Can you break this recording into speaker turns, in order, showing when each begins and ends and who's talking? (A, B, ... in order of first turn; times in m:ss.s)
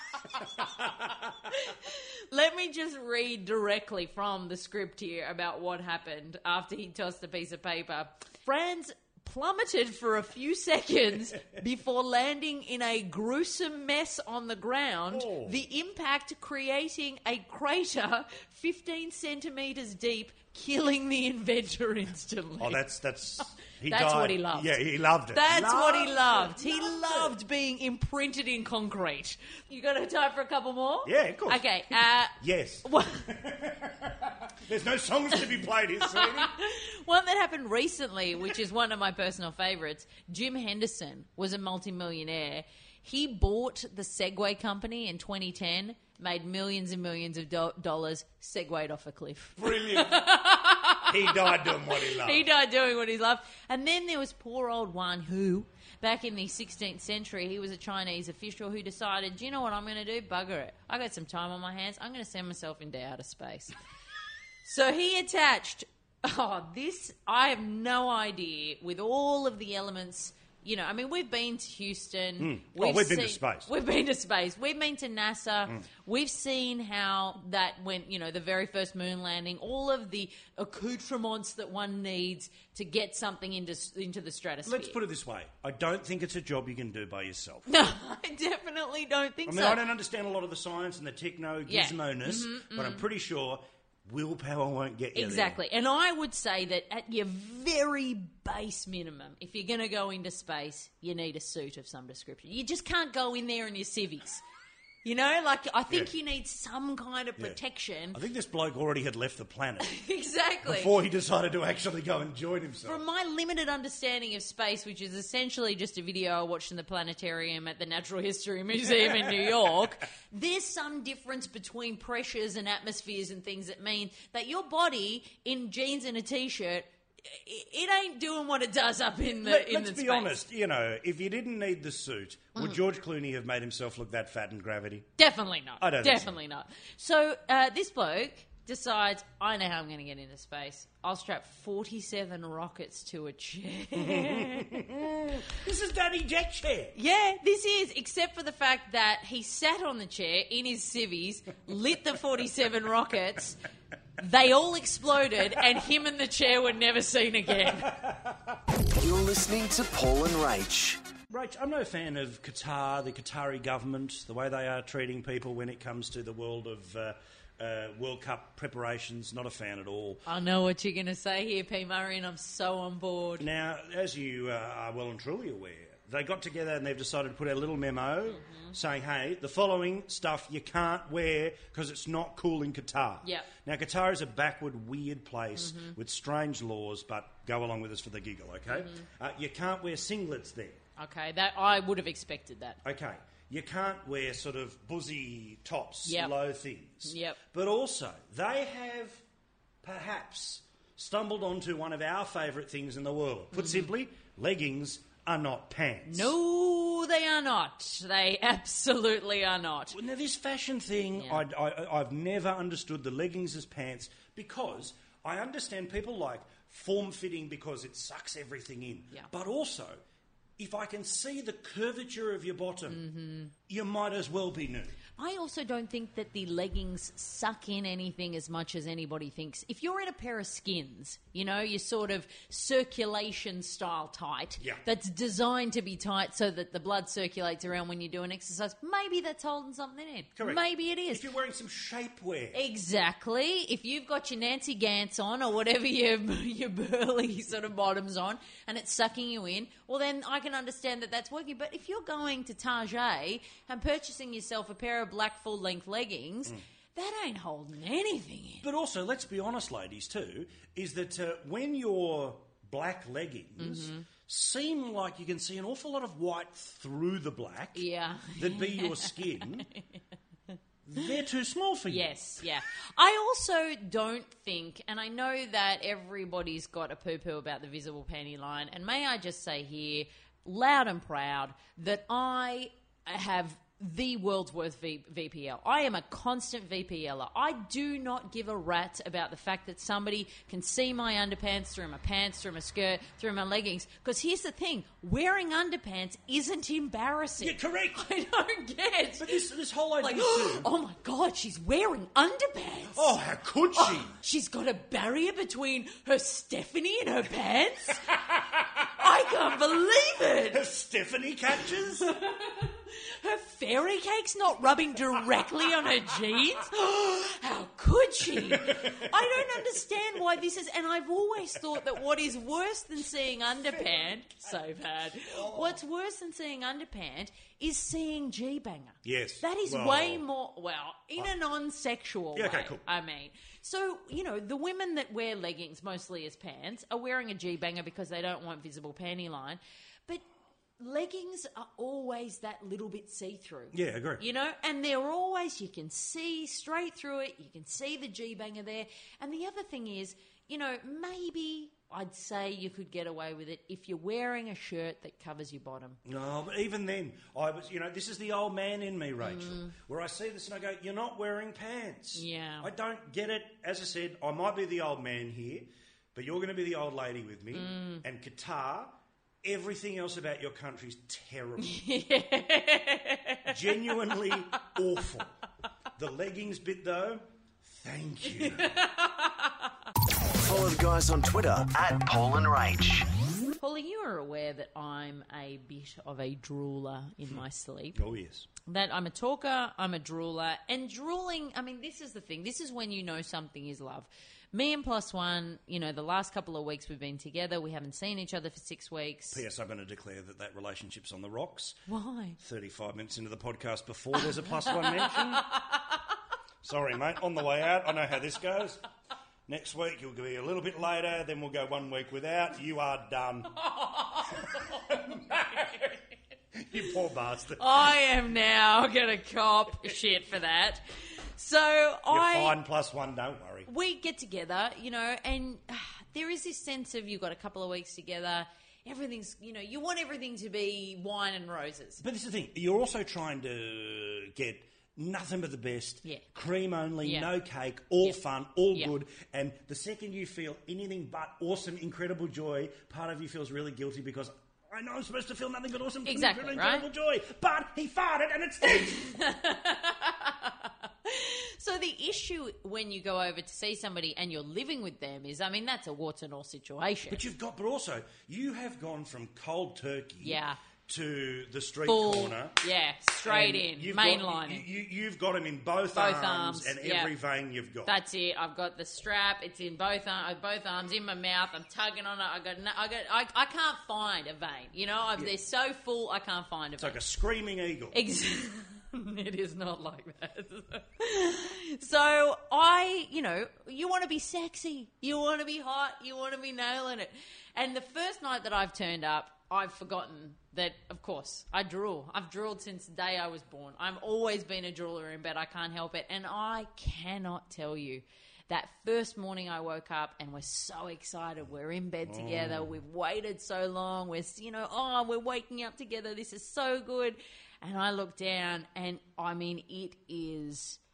0:00.2-0:01.5 A
0:01.5-0:22.8 B
0:15.1-0:15.6 A
0:22.6-0:27.3 A
0:23.8-0:24.8 B
0:25.3-0:33.3 B
0:31.0-0:31.6 A
0:32.4-0:36.5 A
0:36.1-1:03.7 B
0:49.6-0:50.2 A
0:51.1-0:52.5 A
1:04.6-1:25.0 B
1:12.4-1:13.7 A
1:24.6-1:27.7 A
1:27.7-1:29.8 B
1:29.4-1:35.6 A
1:31.7-1:33.0 B
1:35.1-1:44.4 B
1:45.0-1:48.2 B
1:48.1-1:49.9 A
1:49.8-1:50.9 B
1:50.6-1:53.0 A
1:52.8-2:10.4 B
2:09.4-2:15.1 A
2:15.2-2:24.9 B
2:15.8-2:16.4 A
2:23.9-2:26.9 A
2:26.9-2:33.6 B
2:34.2-2:38.0 B
2:37.6-2:38.6 A
2:39.0-2:41.0 C
2:41.3-2:50.2 A
2:50.2-2:53.4 B
2:53.4-3:10.8 A
2:58.3-2:58.7 B
3:03.2-3:03.5 B
3:05.6-3:06.0 B
3:08.7-3:09.0 B
3:11.0-3:12.8 B
3:12.8-3:19.2 A
3:16.0-3:16.3 B
3:17.0-3:17.4 B
3:19.8-3:26.3 A
3:23.5-3:23.9 B
3:26.1-3:30.0 B
3:29.9-3:40.0 A
3:31.2-3:31.4 B
3:40.6-3:43.0 A
3:42.9-3:43.5 B
3:43.7-3:44.9 A
3:45.2-4:01.2 B
4:00.4-4:02.6 A
4:02.5-4:18.6 B
4:18.6-4:29.7 A
4:23.6-4:24.1 B
4:27.7-4:29.8 B
4:30.8-4:32.1 A
4:31.9-4:59.4 B
4:57.4-4:58.0 A
4:59.2-5:00.7 A
5:00.0-5:03.1 B
5:02.9-5:04.1 A
5:03.7-5:08.1 B
5:08.1-5:09.0 A
5:08.9-5:10.6 B
5:10.5-5:12.1 A
5:12.0-5:40.2 B
5:18.3-5:19.7 A
5:25.3-5:25.8 A
5:29.0-5:30.2 A
5:32.3-5:32.8 A
5:40.8-5:56.0 B
5:43.7-5:44.2 A
5:56.0-6:11.8 A
5:59.2-5:59.7 B
6:02.1-6:02.7 B
6:07.5-6:08.0 B
6:11.6-6:13.9 B
6:13.5-6:15.3 A
6:16.0-6:18.7 A
6:18.3-6:19.7 B
6:20.4-6:23.1 C
6:23.6-6:28.0 B
6:27.9-6:28.5 A
6:28.6-6:39.4 B
6:39.3-6:41.8 A
6:41.9-6:42.4 B
6:42.4-6:45.6 A
6:44.4-6:45.8 B
6:46.6-6:48.8 A
6:49.5-6:53.6 A
6:53.6-6:56.0 B
6:54.7-6:55.8 A
6:56.5-6:57.8 A
6:57.6-7:02.6 B
7:02.1-7:03.7 A
7:03.7-7:12.0 B
7:12.0-7:29.1 A
7:17.0-7:17.3 B
7:26.0-7:26.8 B
7:28.6-7:37.2 B
7:37.1-7:42.6 A
7:40.2-7:40.6 B
7:41.8-7:44.6 B
7:43.2-7:47.9 A
7:45.9-7:47.1 B
7:47.8-7:57.0 B
7:56.8-7:58.0 A
7:57.9-8:30.8 B
8:22.0-8:22.8 A